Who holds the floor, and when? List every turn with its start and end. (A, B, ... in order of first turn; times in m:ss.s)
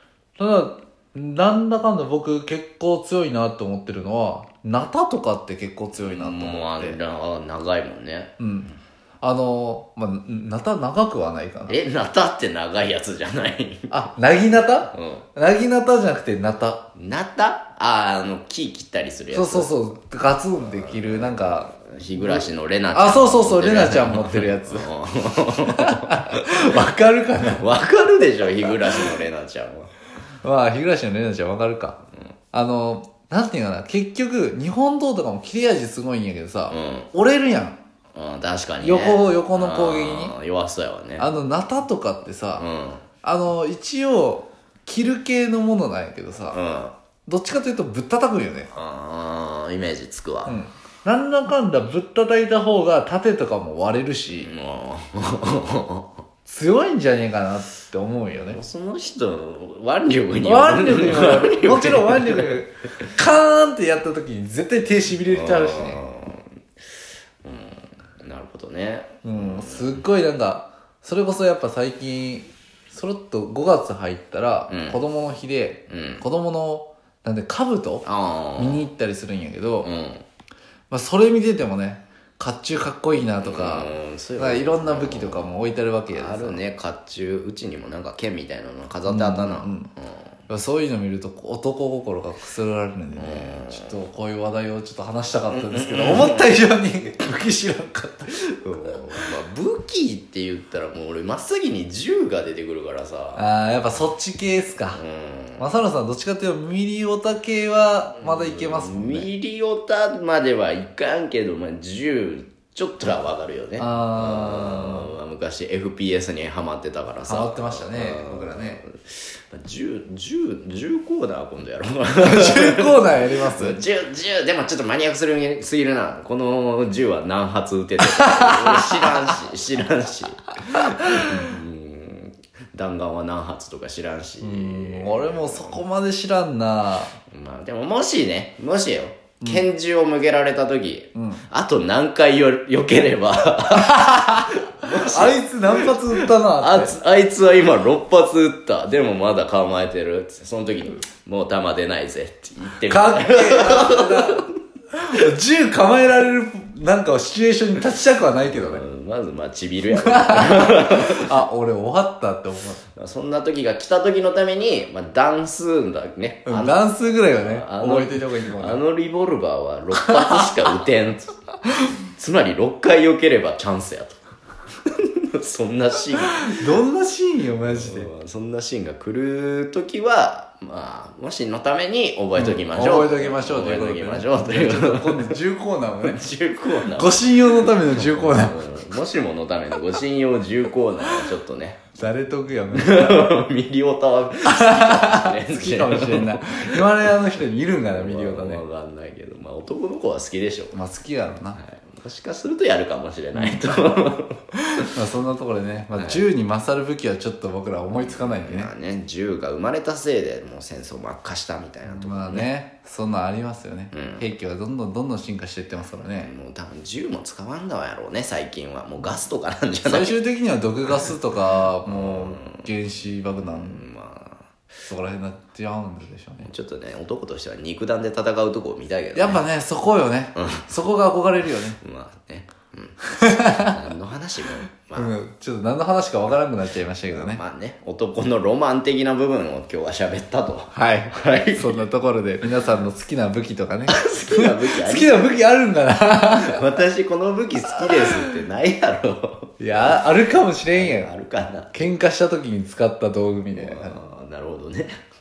0:00.4-0:07.0 A
0:05.9-0:08.3 B
0:08.4-0:11.8 A
0:11.7-0:13.9 B
0:13.9-0:16.8 A
0:14.9-0:15.2 B
0:16.9-0:19.7 B
0:19.3-0:24.9 A
0:20.7-0:26.7 B
0:25.7-0:27.7 A
0:27.6-0:29.9 B
0:30.4-0:32.0 A
0:32.5-0:37.8 A
0:36.7-0:37.1 B
0:38.1-0:41.3 B
0:38.8-0:40.3 A
0:41.2-0:42.6 A
0:42.6-0:43.0 B
0:43.2-0:46.6 A
0:46.5-0:46.9 B
0:47.2-0:48.7 A
0:48.7-0:50.6 B
0:50.4-0:54.5 A
0:54.4-0:56.1 B
0:56.4-0:58.6 A
0:58.3-1:02.6 B
1:00.4-1:06.0 A
1:05.3-1:06.4 B
1:07.4-1:10.0 B
1:09.2-1:19.9 A
1:14.7-1:15.0 B
1:15.9-1:16.2 B
1:18.0-1:18.8 B
1:19.8-1:20.2 B
1:20.9-1:26.6 A
1:23.4-1:25.5 B
1:26.1-1:30.2 B
1:29.1-1:29.9 A
1:30.5-1:39.0 A
1:33.2-1:33.9 B
1:35.5-1:36.5 B
1:38.6-1:43.4 B
1:43.4-1:45.0 A
1:44.9-1:45.7 B
1:45.6-1:49.3 A
1:48.2-2:15.8 B
1:53.8-1:55.1 A
1:57.3-1:58.8 A
2:02.2-2:03.8 A
2:08.1-2:09.2 A
2:11.1-2:11.4 A
2:14.4-2:17.2 A
2:17.3-2:34.5 B
2:19.4-2:19.6 A
2:21.1-2:21.4 A
2:23.8-2:27.0 A
2:32.9-2:38.8 A
2:38.4-2:41.4 B
2:39.9-2:42.8 A
2:43.0-2:51.3 B
2:46.4-2:48.8 A
2:50.0-2:50.5 A
2:52.0-2:54.2 B
2:54.8-2:56.5 B
2:56.4-2:58.1 A
2:57.6-3:05.4 B
3:02.4-3:06.2 A
3:06.0-3:11.8 B
3:06.9-3:08.6 A
3:12.0-3:13.3 A
3:12.7-3:16.8 B
3:14.4-3:18.6 A
3:17.9-3:20.8 B
3:20.7-3:21.6 A
3:21.5-3:24.5 B
3:24.8-3:28.7 A
3:26.0-3:26.2 B
3:27.9-3:32.5 B
3:31.8-3:36.3 A
3:33.9-3:34.2 B
3:36.1-3:40.2 B
3:39.8-3:43.8 A
3:41.8-3:42.7 B
3:43.4-3:44.4 B
3:44.9-3:46.5 A
3:46.4-3:49.4 B
3:49.1-3:51.8 A
3:50.3-3:50.6 B
3:51.8-3:55.1 B
3:53.1-3:53.8 A
3:55.0-3:57.4 A
3:57.1-4:01.8 B
4:00.7-4:06.6 A
4:03.9-4:05.2 B
4:06.3-4:10.0 B
4:09.6-4:11.1 A
4:10.7-4:11.9 B
4:11.7-4:14.0 A
4:13.5-4:14.9 B